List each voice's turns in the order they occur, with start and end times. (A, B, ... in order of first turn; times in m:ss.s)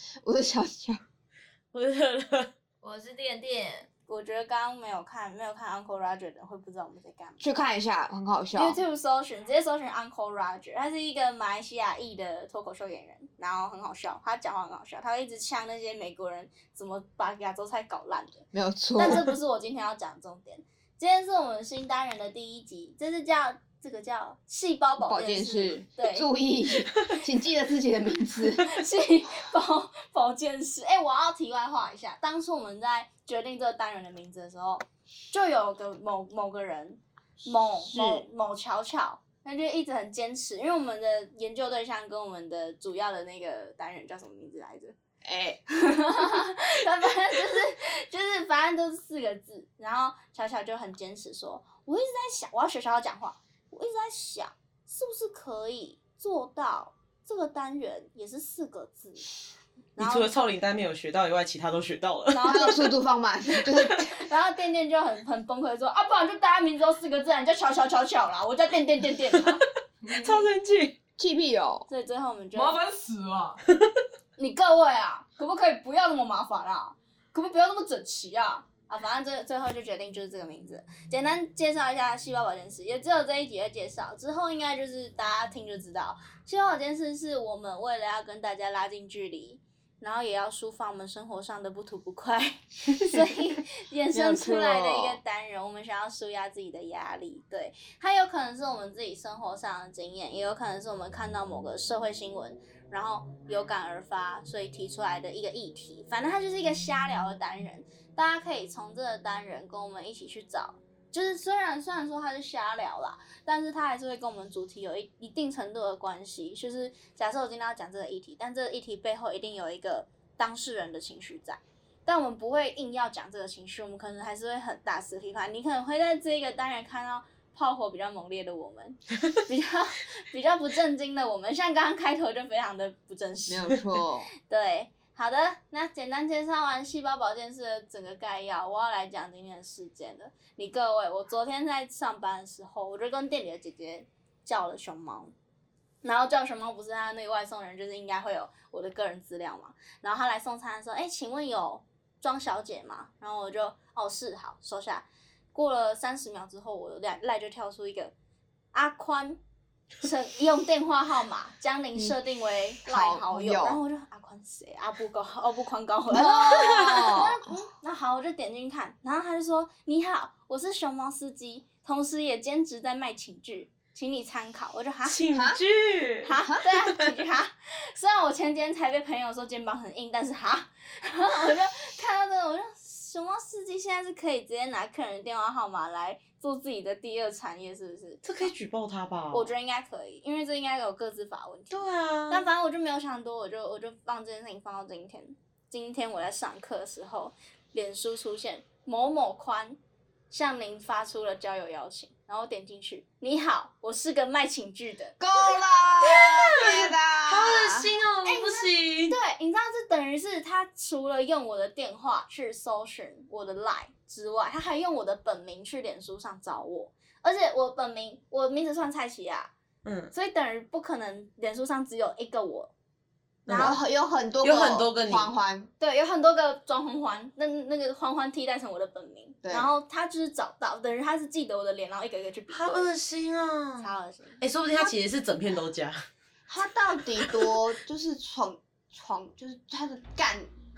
0:00.2-0:01.0 A
0:01.7-0:02.5 B
0:02.8-0:03.9 C
0:04.1-0:07.4 D
0:07.4-0:08.8 A
0:08.6-0:26.3 D
0:18.5-0:19.2 A
0:25.0-0:28.8 A
0:28.4-0:44.9 D
0:37.8-0:38.2 A
0:45.2-0:45.6 A
0:45.7-0:59.3 D
1:00.0-1:00.3 D
1:00.0-1:02.6 B
1:02.3-1:02.9 D
1:02.5-1:04.1 A
1:03.9-1:09.6 D
1:10.0-1:10.5 C
1:10.1-1:11.0 B
1:11.2-1:11.8 A
1:11.9-1:12.8 D
1:12.5-1:13.6 C
1:14.4-2:13.8 D
1:34.1-1:35.2 A
2:13.5-2:14.3 A
2:14.4-2:25.3 D
2:26.0-2:38.1 D
2:38.7-2:39.4 D
2:40.0-2:55.3 D
2:42.8-2:43.8 A
2:46.1-2:47.4 A
2:55.0-2:56.4 B
2:55.3-2:55.6 A
2:56.2-3:08.5 D
3:08.2-3:09.5 B
3:09.3-3:19.8 D
3:11.7-3:12.4 B
3:20.3-3:25.2 D
3:25.2-3:27.9 A
3:26.0-3:29.2 B
3:28.3-3:28.6 D
3:29.1-3:39.5 D
3:39.8-3:40.1 B
3:40.1-3:42.7 D
3:43.4-3:43.8 B
3:43.5-3:45.7 A
3:44.4-3:45.3 B
3:45.8-3:52.9 D
3:49.4-3:49.7 A
3:52.5-3:56.0 B
3:53.8-3:54.4 D
3:56.5-4:00.5 A